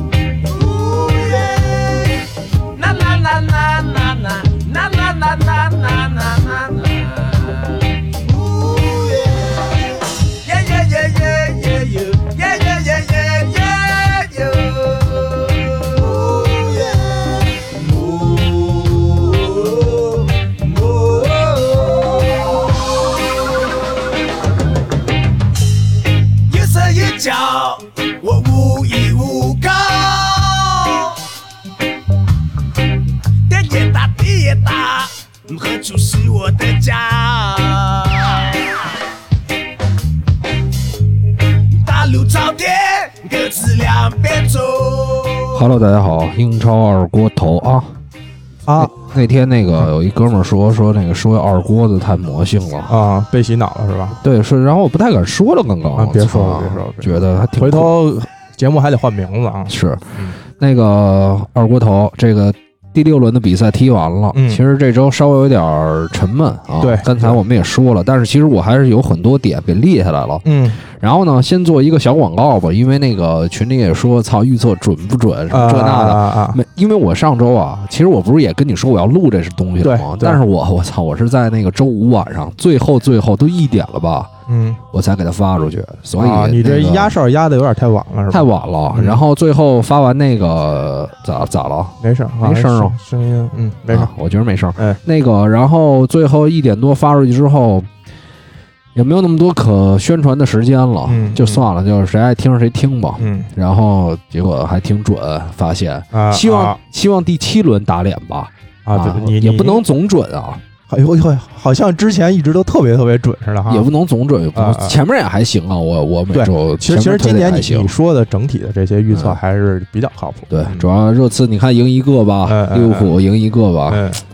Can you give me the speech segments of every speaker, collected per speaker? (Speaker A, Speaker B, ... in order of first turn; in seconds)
Speaker A: 0.4-23.2, 26.3-31.2, 33.5-38.9, 41.7-45.6
Speaker B: 45.5-47.9, 48.8-52.9, 54.2-57.9, 59.7-84.3, 84.9-87.1, 88.3-93.0, 93.9-97.9, 98.9-110.6, 113.7-117.9, 119.1-119.4, 120.5-124.0
Speaker C: 48.7-48.9, 52.9-54.2, 56.0-60.4, 64.3-64.6, 66.8-67.4, 70.4-70.8, 75.5-76.6, 79.8-80.4, 84.5-84.8, 86.2-89.2, 92.0-94.1, 101.0-101.6, 103.2-103.5, 106.1-106.8, 108.8-109.8, 110.9-113.9, 114.5-115.0, 116.3-120.9, 122.5-123.1, 123.9-124.2